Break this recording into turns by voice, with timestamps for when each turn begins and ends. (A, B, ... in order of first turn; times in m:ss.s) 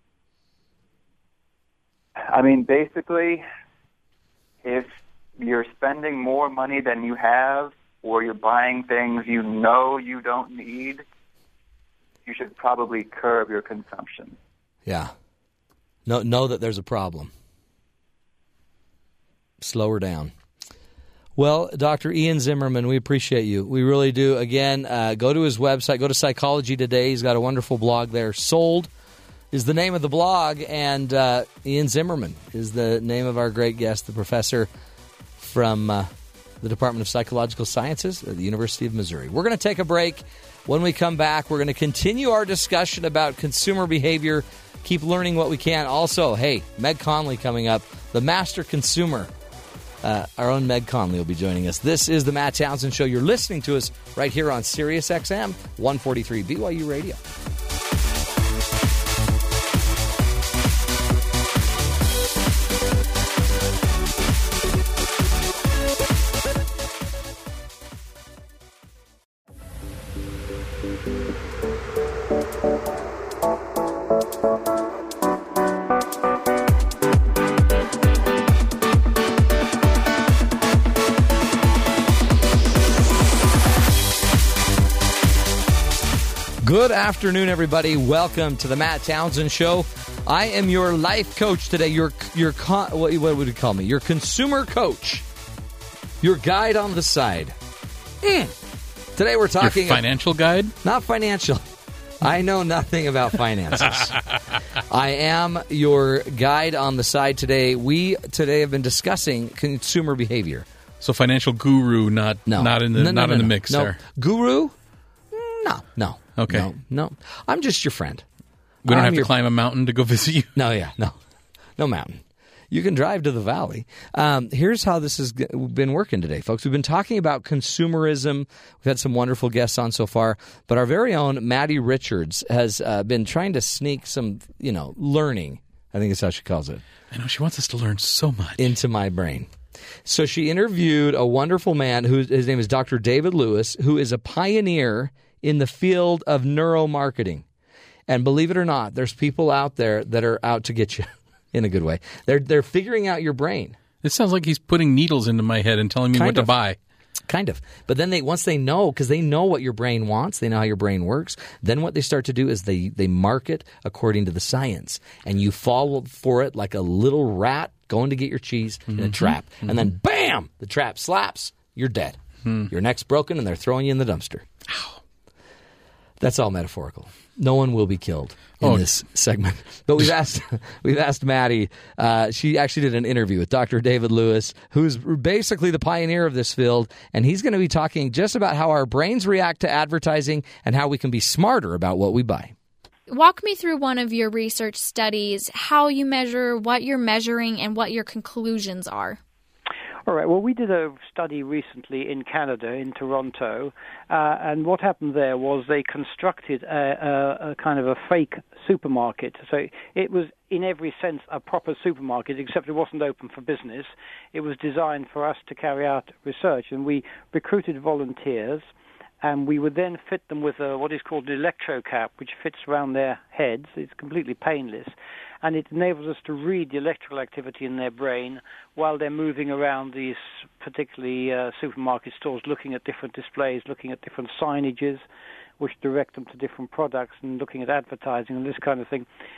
0:02.3-0:03.4 A
0:04.6-0:11.0 A
0:12.3-0:14.4 A
0:14.9-0:15.1 B
0:16.1-0:17.3 B
0:19.6-0:20.3 B
0:21.4-0:28.9 B
0:29.5-0:34.7 B
0:35.4-0:36.1 B
0:36.6-0:49.3 B
0:50.0-0:57.2 B
1:26.6-1:35.3 B
1:36.2-1:37.6 B
1:38.2-1:38.6 B
1:39.2-1:40.1 B
1:39.6-1:40.8 C
1:40.8-1:41.7 B
1:42.2-1:44.2 B
1:44.9-1:50.7 B
1:51.0-1:54.0 C
1:52.5-1:54.8 B
1:55.3-1:58.2 B
1:56.4-1:56.7 C
1:58.8-1:59.3 B
1:58.8-2:00.5 C
2:00.6-2:01.2 B
2:01.8-2:16.8 B
2:17.1-2:18.7 C
2:18.6-2:19.5 B
2:20.0-2:27.4 B
2:28.1-2:33.8 B
2:34.0-2:36.8 C
2:36.1-2:36.5 B
2:37.3-2:54.5 B
2:48.9-2:49.9 C
2:56.2-3:12.5 B
2:58.6-2:58.9 C
3:13.1-3:19.2 D
3:20.0-3:38.7 E
3:39.2-3:55.0 E
3:55.6-3:59.1 E